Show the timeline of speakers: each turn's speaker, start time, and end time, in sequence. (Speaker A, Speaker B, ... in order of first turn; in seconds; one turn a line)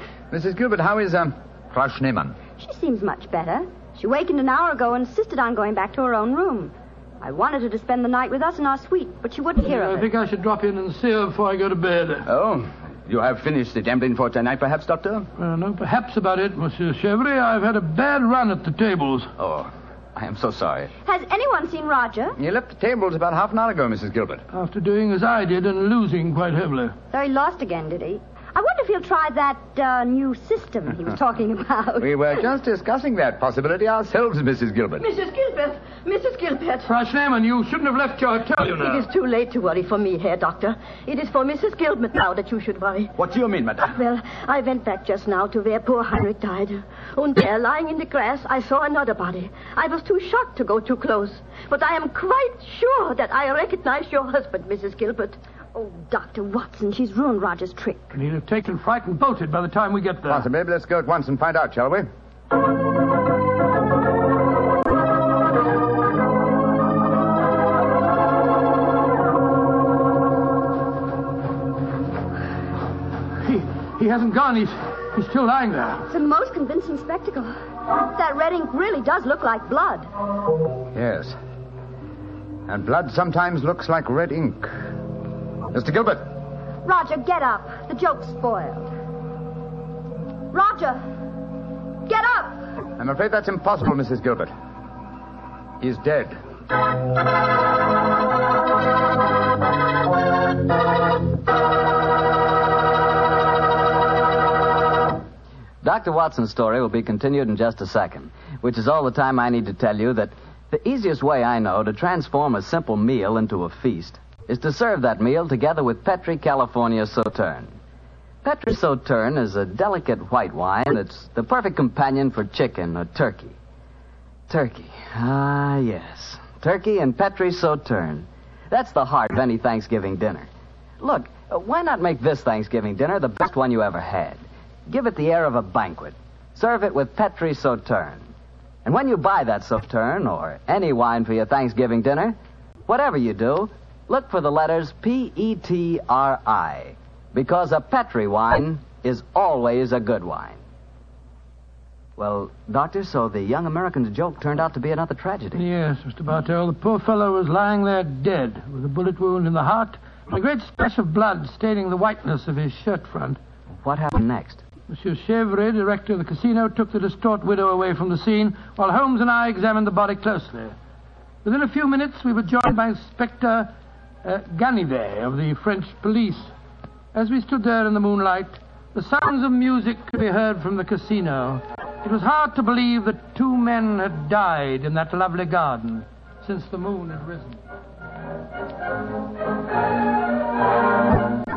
Speaker A: 0.3-2.4
Speaker B: 2.6-10.1
Speaker C: 9.6-12.3
Speaker D: 12.3-15.2
Speaker C: 15.4-19.3
Speaker D: 19.4-19.7
Speaker D: 20.2-20.9
Speaker B: 21.1-22.4
Speaker A: 22.4-24.4
Speaker C: 24.5-26.9
Speaker B: 27.1-32.2
Speaker A: 32.0-35.0
Speaker E: 35.0-36.9
Speaker C: 36.8-39.0
Speaker E: 38.7-43.1
Speaker D: 43.2-43.9
Speaker E: 43.9-55.4
Speaker B: 55.7-58.1
Speaker C: 58.1-60.5
Speaker A: 60.3-62.1
Speaker C: 73.4-76.0
Speaker B: 76.1-80.1
Speaker A: 80.9-81.4
Speaker A: 82.7-85.0
Speaker A: 85.7-86.4
Speaker B: 86.8-88.9
Speaker B: 90.5-91.2
Speaker B: 92.0-92.7
Speaker A: 93.0-94.5
Speaker A: 95.8-96.4
Speaker F: 105.8-117.7
Speaker F: 118.4-123.5
Speaker F: 124.5-130.5
Speaker F: 131.0-138.3
Speaker F: 138.8-142.4
Speaker F: 142.9-150.6
Speaker F: 152.2-155.6
Speaker C: 155.5-163.4
Speaker F: 163.8-164.6
Speaker C: 164.9-170.8
Speaker C: 171.4-173.7
Speaker C: 174.2-176.5
Speaker C: 177.1-187.6